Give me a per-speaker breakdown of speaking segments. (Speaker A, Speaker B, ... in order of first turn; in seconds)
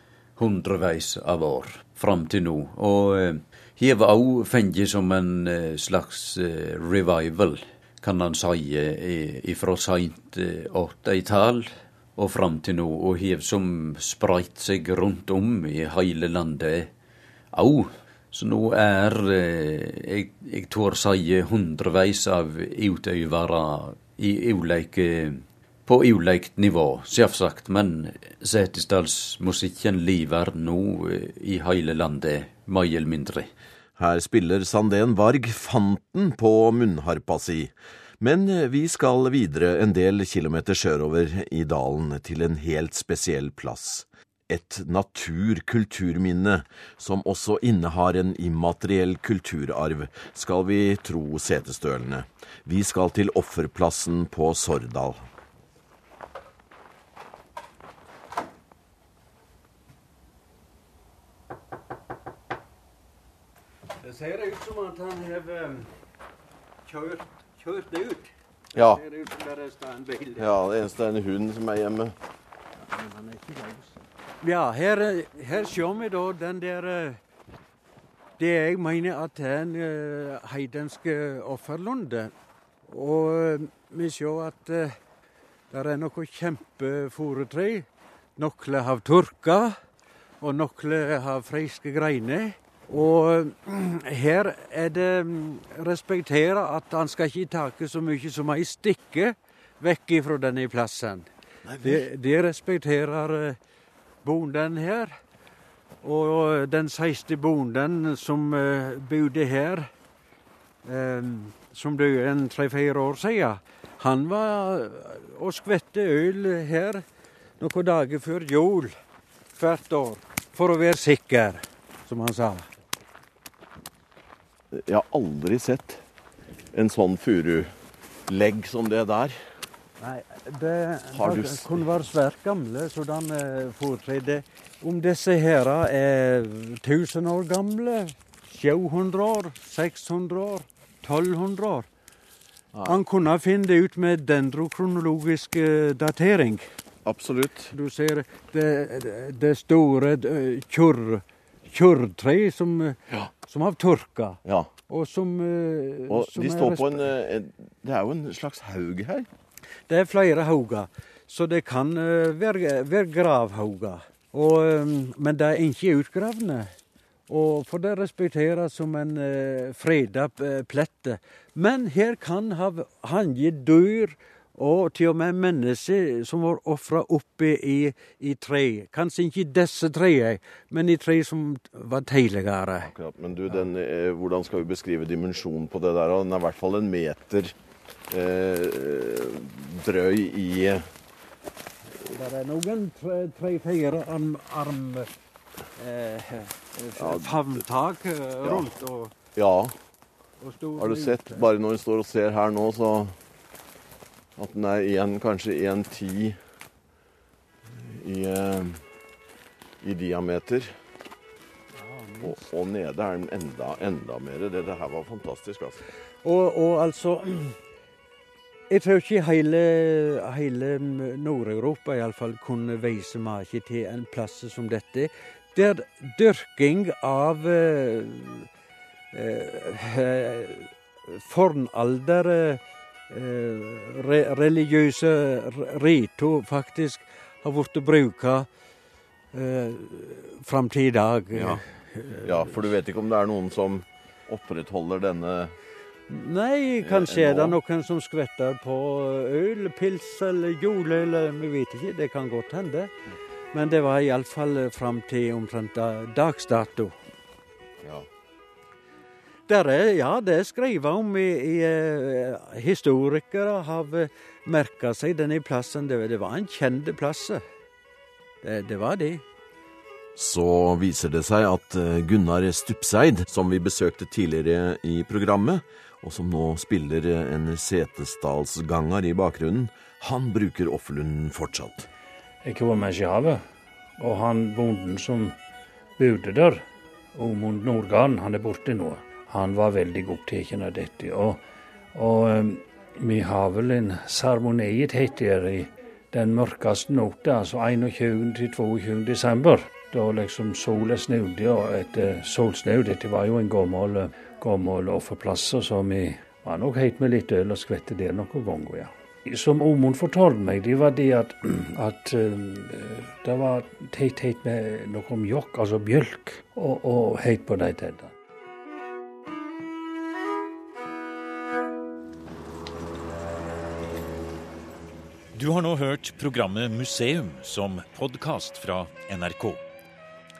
Speaker A: 0.4-16.9, 17.5-33.5
Speaker B: 34.0-55.2, 68.7-69.0, 70.4-72.1, 101.7-102.0, 124.7-126.0, 126.7-127.7, 128.3-129.4, 131.1-131.8, 142.7-143.0, 147.1-147.7, 154.4-154.7, 156.1-159.3, 182.8-187.5, 188.1-190.9, 197.0-197.4, 198.4-198.7, 199.3-199.7, 200.8-203.2, 204.4-206.4, 207.7-208.8, 209.8-210.7, 212.2-215.8, 241.3-241.6, 242.2-245.5, 246.8-247.6, 270.1-281.9
Speaker C: 64.0-65.9, 66.8-70.5, 72.8-77.2, 78.4-82.3, 82.9-85.0, 85.7-89.8, 90.4-101.3, 101.8-103.6, 104.2-105.2, 106.0-109.9, 110.8-117.0, 117.6-118.9, 119.5-122.7, 130.0-141.9, 142.8-146.7, 147.7-157.0, 159.9-166.7, 167.3-182.9, 192.1-195.1, 195.8-199.1, 200.4-201.4, 211.7-212.4, 216.2-217.6, 218.7-228.5, 229.1-238.5, 239.3-242.4, 246.1-252.9, 253.5-257.0, 259.5-267.4, 268.4-269.2
Speaker D: 282.4-283.4, 284.0-285.3, 286.0-291.4, 291.9-318.1
Speaker E: 325.3-329.6